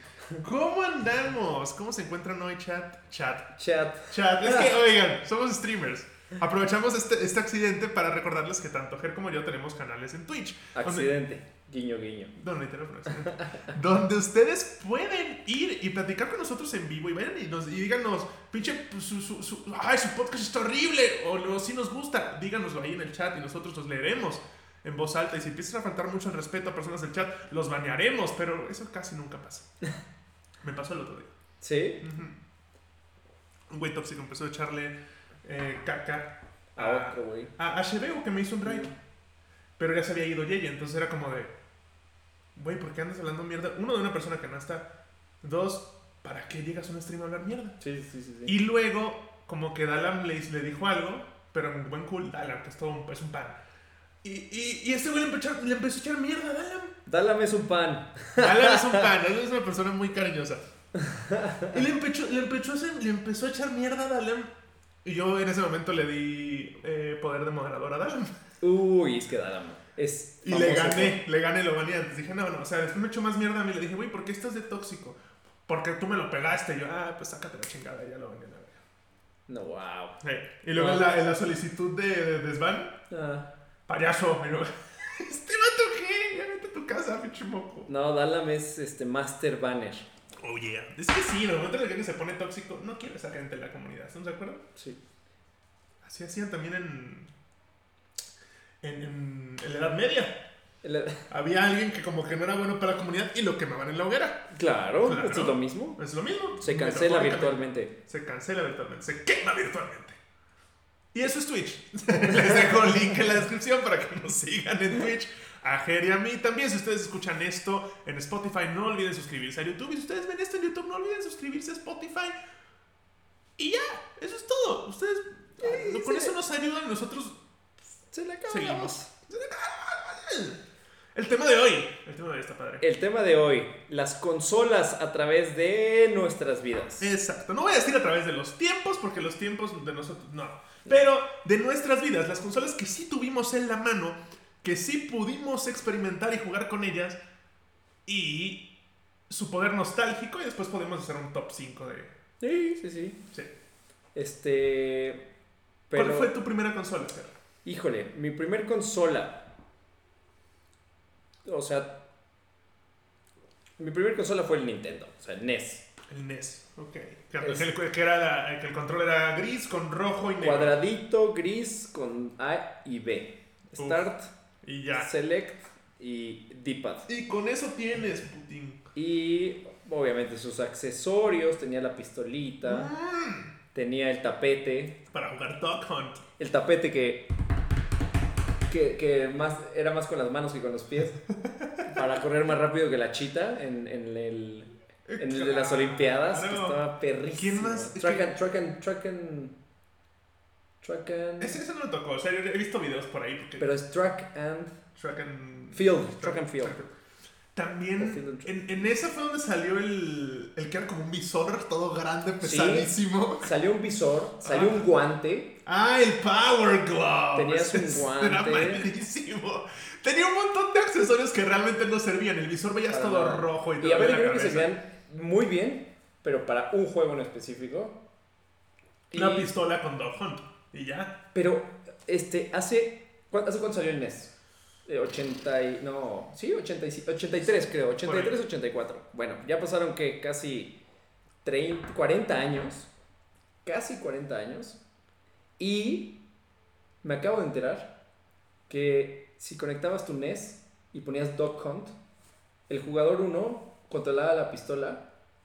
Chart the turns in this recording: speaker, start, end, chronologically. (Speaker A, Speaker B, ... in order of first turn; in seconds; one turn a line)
Speaker A: 0.4-3.5
Speaker B: 3.5-4.7
Speaker A: 4.1-11.1
Speaker B: 10.7-12.3
Speaker A: 12.3-29.7
Speaker B: 13.2-13.7
Speaker A: 30.6-31.3
Speaker B: 31.6-32.0
Speaker A: 32.0-32.4
Speaker A: 33.7-38.9
Speaker B: 36.8-37.5
Speaker B: 38.6-38.9
Speaker A: 39.8-41.5
Speaker A: 42.5-44.9
Speaker A: 45.4-47.8
Speaker B: 47.8-48.5
Speaker A: 48.5-53.6
Speaker A: 54.2-56.9
Speaker B: 57.0-59.1
Speaker A: 58.4-60.6
Speaker B: 61.0-61.8
Speaker A: 61.7-64.5
Speaker A: 65.0-68.3
Speaker B: 68.6-71.2
Speaker A: 70.4-78.8
Speaker B: 79.5-80.1
Speaker A: 80.2-82.9
Speaker B: 80.7-81.1
Speaker B: 83.1-83.5
Speaker A: 83.9-87.9
Speaker B: 87.9-90.1
Speaker A: 90.4-94.6
Speaker A: 96.0-97.3
Speaker A: 98.8-100.3
Speaker B: 100.8-101.2
Speaker A: 101.3-104.4
Speaker B: 104.5-106.0
Speaker A: 105.0-110.2
Speaker B: 106.6-107.9
Speaker A: 111.1-122.3
Speaker B: 112.2-113.3
Speaker A: 123.6-127.4
Speaker B: 125.6-126.3
Speaker B: 128.1-129.1
Speaker A: 128.5-130.6
Speaker A: 131.1-132.8
Speaker B: 132.8-137.1
Speaker A: 137.0-147.2
Speaker A: 148.1-148.6
Speaker A: 149.3-152.1
Speaker B: 152.4-153.2
Speaker B: 154.1-155.2
Speaker B: 155.9-156.3
Speaker A: 155.9-157.3
Speaker B: 157.6-159.4
Speaker B: 161.4-161.9
Speaker B: 163.8-165.8
Speaker A: 166.1-170.8
Speaker B: 167.4-167.7
Speaker B: 170.4-174.3
Speaker A: 173.8-174.1
Speaker A: 174.6-175.1
Speaker B: 174.9-177.1
Speaker A: 177.1-178.8
Speaker B: 178.9-182.9
Speaker A: 182.6-183.5
Speaker B: 183.7-185.0
Speaker A: 185.1-186.2
Speaker B: 186.4-187.3
Speaker B: 188.7-191.2
Speaker A: 191.4-192.1
Speaker B: 191.8-199.6
Speaker A: 195.1-196.8
Speaker A: 197.4-198.3
Speaker B: 200.8-201.6
Speaker A: 201.4-203.7
Speaker B: 203.6-204.8
Speaker A: 204.9-206.9
Speaker B: 205.7-206.8
Speaker A: 207.5-213.5
Speaker B: 208.0-208.5
Speaker B: 212.4-215.5
Speaker A: 214.4-214.9
Speaker A: 215.7-224.7
Speaker B: 217.3-218.9
Speaker B: 222.9-228.0
Speaker B: 229.1-229.5
Speaker A: 229.1-231.1
Speaker B: 231.3-234.3
Speaker B: 234.8-240.8
Speaker A: 238.0-238.3
Speaker B: 241.4-242.9
Speaker B: 243.6-244.8
Speaker B: 245.6-246.2
Speaker B: 247.0-247.9
Speaker B: 248.7-251.9
Speaker B: 252.7-255.0